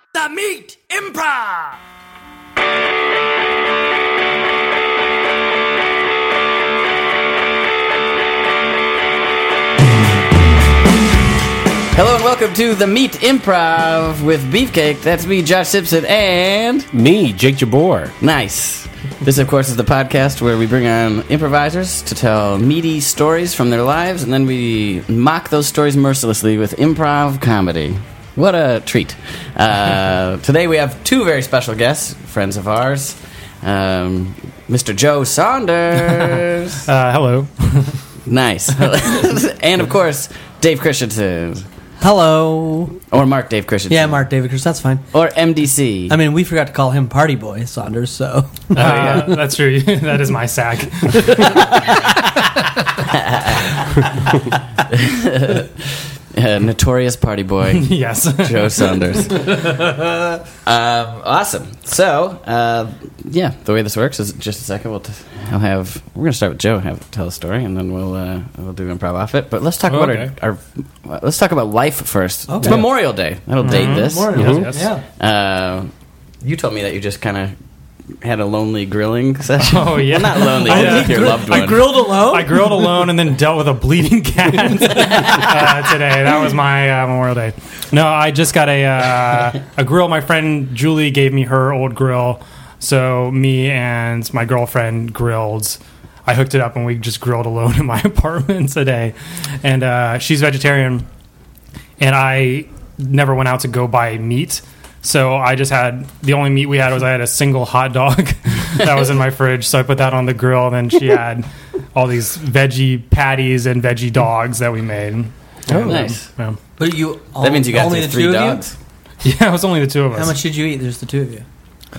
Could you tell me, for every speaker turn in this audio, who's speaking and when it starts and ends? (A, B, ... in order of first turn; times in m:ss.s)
0:00.2-0:01.7 A
0:11.9-0:16.9 A
0:16.9-0:18.1 B
0:18.2-0:36.8 A
0:36.8-0:38.0 C
0:38.3-0:41.6 A
0:42.0-0:43.0 D
0:43.1-0:44.2 A
0:43.9-0:45.0 D
0:45.1-0:46.2 A
0:46.1-0:49.3 D
0:48.7-0:51.6 C
0:53.1-0:53.8 A
0:54.9-0:59.8 A
0:57.7-0:59.0 C
1:00.6-1:14.6 A
1:09.9-1:10.3 C
1:12.5-1:12.8 D
1:13.6-1:14.9 C
1:13.6-1:15.0 D
1:14.3-1:14.7 B
1:15.2-1:15.9 A
1:16.4-1:17.5 A
1:18.2-1:22.1 A
1:19.6-1:21.4 C
1:20.6-1:22.8 D
1:22.2-1:41.0 C
1:42.0-1:56.6 C
1:55.7-1:56.1 B
1:55.8-1:56.2 A
1:56.8-1:58.6 D
1:57.4-1:58.7 A
1:59.2-2:00.4 C
2:00.1-2:01.4 D